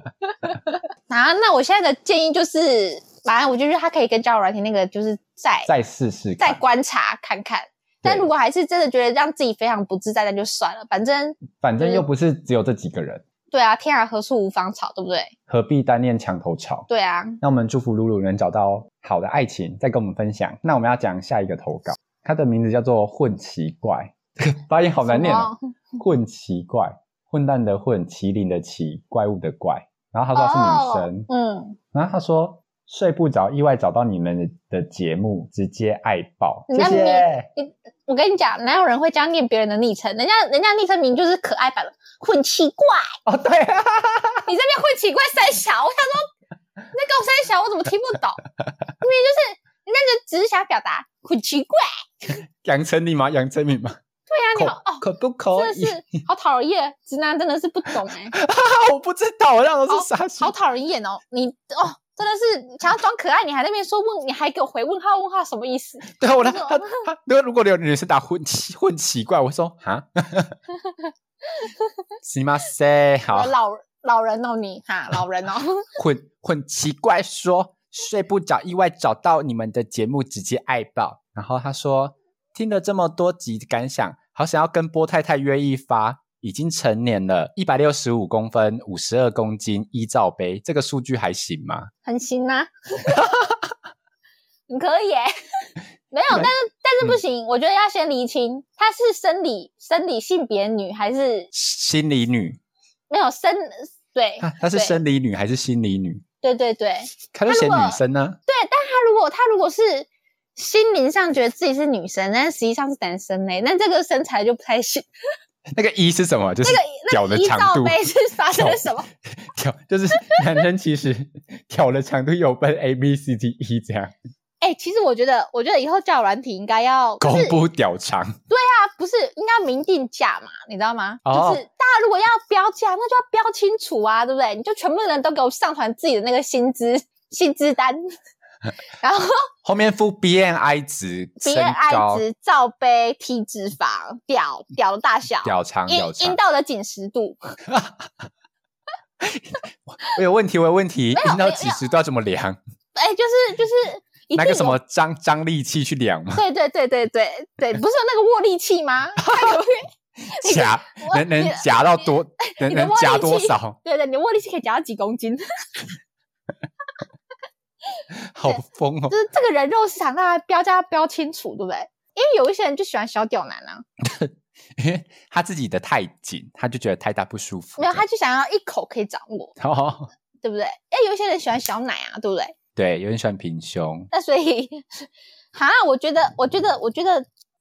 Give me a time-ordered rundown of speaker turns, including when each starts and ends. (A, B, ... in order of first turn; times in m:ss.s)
0:00.2-0:05.7 A
0:05.6-0:06.6 B
0:06.4-0:12.0 A
0:11.6-0:13.2 B
0:13.5-0:15.3 A
0:15.5-0:16.9 B
0:16.9-0:17.4 A
0:17.4-0:31.3 B
0:25.0-0:25.7 A
0:30.3-0:31.8 A
0:31.9-0:37.5 B
0:36.7-0:43.1 A
0:43.2-0:44.5 B
0:44.4-0:46.3 A
0:46.9-0:48.4 A
0:49.0-0:52.4 A
0:52.6-0:54.0 B
0:54.3-0:58.3 A
0:54.5-0:56.0 B
0:58.3-1:00.5 B
0:59.9-1:06.9 A
1:06.1-1:10.6 B
1:11.5-1:11.9 A
1:12.2-1:13.5 B
1:13.3-1:15.9 A
1:16.0-1:31.9 B
1:32.0-1:33.4 A
1:33.1-1:33.7 B
1:34.7-1:41.5 A
1:41.5-1:42.6 B
1:43.1-1:45.0 A
1:44.4-1:46.2 B
1:46.4-1:55.1 A
1:47.3-1:48.4 B
1:55.7-1:58.0 B
1:56.6-1:59.1 A
1:58.5-2:04.1 B
2:00.2-2:00.5 A
2:04.6-2:07.6 A
2:07.2-2:08.4 B
2:08.5-2:18.0 A
2:11.2-2:11.6 B
2:19.0-2:19.5 A
2:19.6-2:22.2 B
2:21.4-2:27.6 A
2:25.4-2:26.4 B
2:27.7-2:28.1 B
2:29.2-2:32.6 B
2:31.1-2:31.9 A
2:32.9-2:34.8 A
2:34.3-2:36.4 B
2:36.4-2:39.8 A
2:39.2-2:39.6 B
2:40.3-2:43.8 B
2:40.3-2:45.9 A
2:48.0-2:53.8 A
2:48.1-2:49.1 B
2:54.0-2:58.0 B
2:57.8-2:59.5 A
2:59.6-3:00.1 B
3:00.4-3:02.6 A
3:02.8-3:04.1 B
3:04.1-3:07.3 A